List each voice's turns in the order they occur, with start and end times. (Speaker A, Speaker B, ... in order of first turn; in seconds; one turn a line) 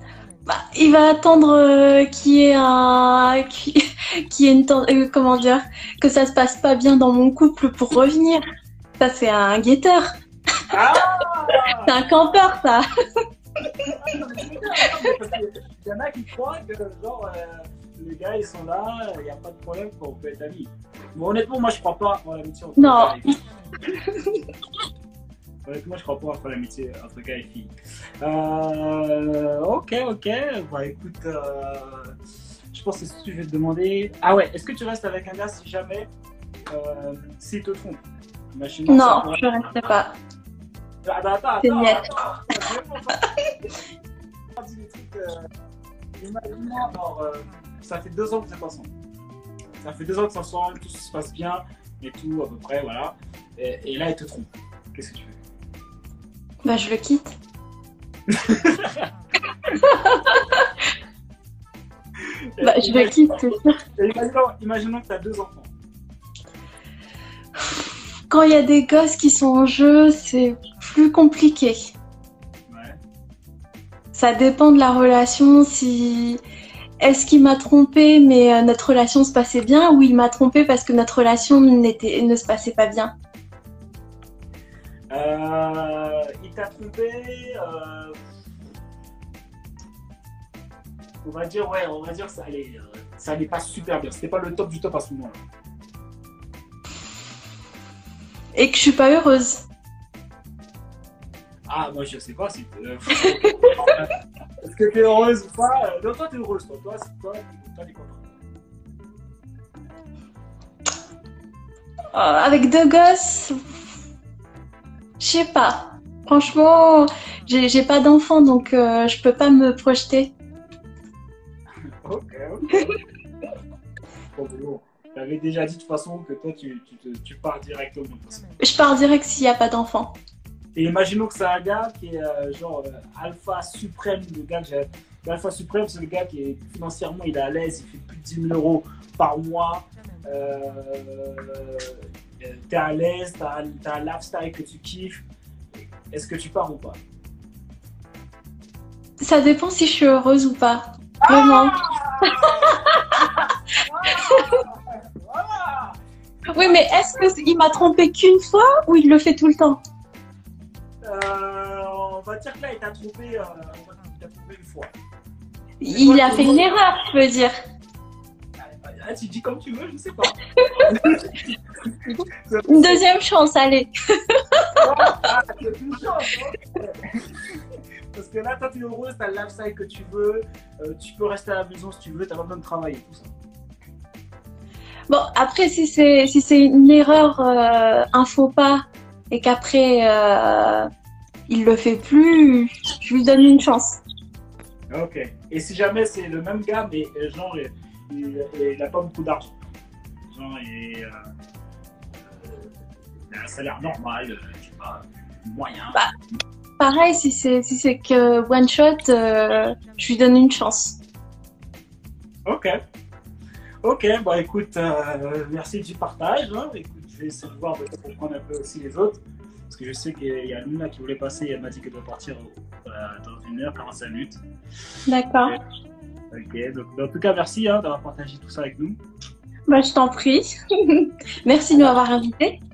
Speaker A: 0.5-8.4
Speaker A: 9.0-10.1
Speaker B: 10.7-12.3
Speaker A: 11.6-12.8
Speaker B: 13.9-23.4
Speaker A: 22.8-24.5
Speaker B: 25.6-32.2
Speaker B: 32.7-36.1
Speaker B: 36.7-38.0
Speaker B: 38.5-39.9
Speaker A: 38.9-40.1
Speaker B: 41.0-43.2
Speaker A: 41.6-42.1
Speaker B: 44.5-45.3
Speaker B: 46.2-48.9
Speaker B: 49.8-55.4
Speaker A: 56.6-57.4
Speaker B: 58.3-59.0
Speaker A: 59.7-60.6
Speaker B: 62.6-65.7
Speaker A: 62.6-63.8
Speaker A: 68.3-71.9
Speaker B: 72.7-73.0
Speaker A: 74.1-76.4
Speaker A: 77.0-83.1
Speaker B: 85.1-88.2
Speaker B: 91.2-95.4
Speaker A: 98.5-99.7
Speaker B: 101.7-104.1
Speaker A: 103.1-104.0
Speaker B: 104.6-108.4
Speaker A: 112.1-113.6
Speaker A: 115.2-120.3
Speaker B: 122.0-123.0
Speaker B: 124.3-128.5
Speaker A: 128.6-130.1
Speaker B: 130.7-145.2
Speaker B: 146.1-147.0
Speaker A: 149.2-153.2
Speaker B: 151.2-156.0
Speaker A: 154.1-154.6
Speaker A: 156.5-159.8
Speaker B: 156.5-157.3
Speaker B: 161.0-164.9
Speaker A: 165.8-167.5
Speaker B: 165.8-166.7
Speaker B: 168.6-173.1
Speaker A: 170.6-171.1
Speaker A: 172.7-175.2
Speaker B: 174.8-177.6
Speaker B: 178.1-183.3
Speaker A: 185.1-190.9
Speaker A: 191.5-194.0
Speaker B: 194.9-199.6
Speaker B: 200.3-201.1
Speaker B: 202.2-202.7
Speaker B: 203.3-206.0
Speaker A: 206.8-211.0
Speaker B: 213.8-224.4
Speaker A: 225.1-225.5
Speaker B: 226.3-229.0
Speaker A: 229.7-232.6
Speaker B: 231.7-232.0